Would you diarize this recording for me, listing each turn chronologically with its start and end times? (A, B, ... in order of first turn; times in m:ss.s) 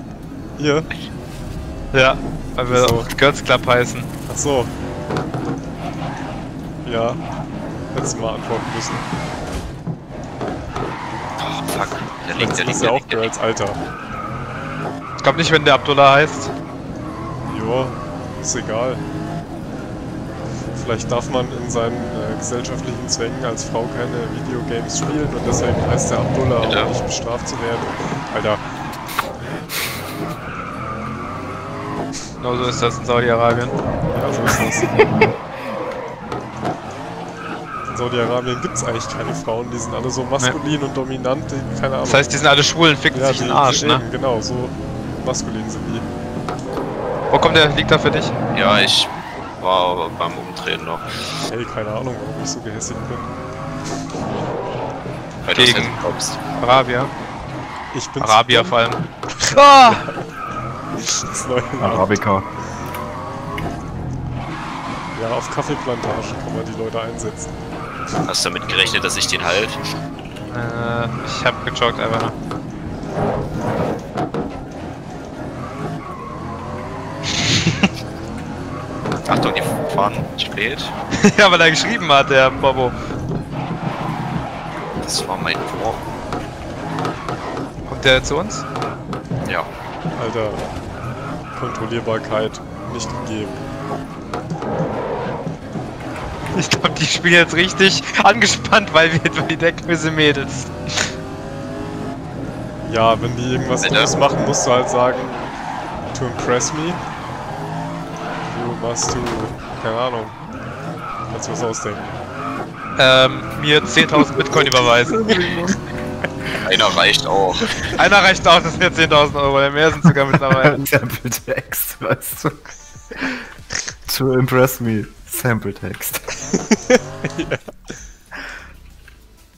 0:00.6-0:00.9 A
0:01.9-0:04.1 B
0:02.7-0:03.2 A
0:04.3-0:04.7 A
0:06.8-0:07.2 A
0:07.9-0:09.1 A
0:11.4-0:13.3 C
0:12.3-0:13.8 A
0:15.2-0:16.5 B
0:17.5-0:19.0 A
0:20.7-0:28.6 A
0:26.6-0:26.9 C
0:32.4-0:33.8 B
0:34.1-0:35.0 A
0:34.3-0:34.9 D
0:37.9-0:42.4 A
0:42.0-0:44.0 B
0:43.1-0:46.1 A
0:47.3-0:48.3 B
0:48.5-0:51.1 C
0:51.5-0:53.4 A
0:55.4-0:56.4 C
0:55.5-0:56.0 B
0:56.6-0:57.1 B
0:57.9-0:58.8 A
0:58.2-0:59.9 B
0:59.5-1:00.2 A
1:01.0-1:02.2 A
1:01.8-1:02.5 D
1:05.1-1:07.5 A
1:08.3-1:09.8 C
1:10.5-1:12.4 B
1:17.4-1:17.9 B
1:19.3-1:20.9 C
1:21.2-1:23.0 B
1:25.0-1:26.0 C
1:27.9-1:28.6 B
1:30.2-1:30.7 A
1:31.6-1:33.6 A
1:36.5-1:40.7 B
1:42.9-1:45.6 A
1:43.8-1:44.2 C
1:46.1-1:47.0 A
1:48.5-1:50.4 A
1:51.3-1:52.1 A
1:53.0-1:55.2 B
1:55.1-1:55.7 D
1:56.6-1:57.9 C
1:58.0-2:00.8 B
2:00.5-2:02.6 D
2:04.1-2:06.2 D
2:06.9-2:07.6 A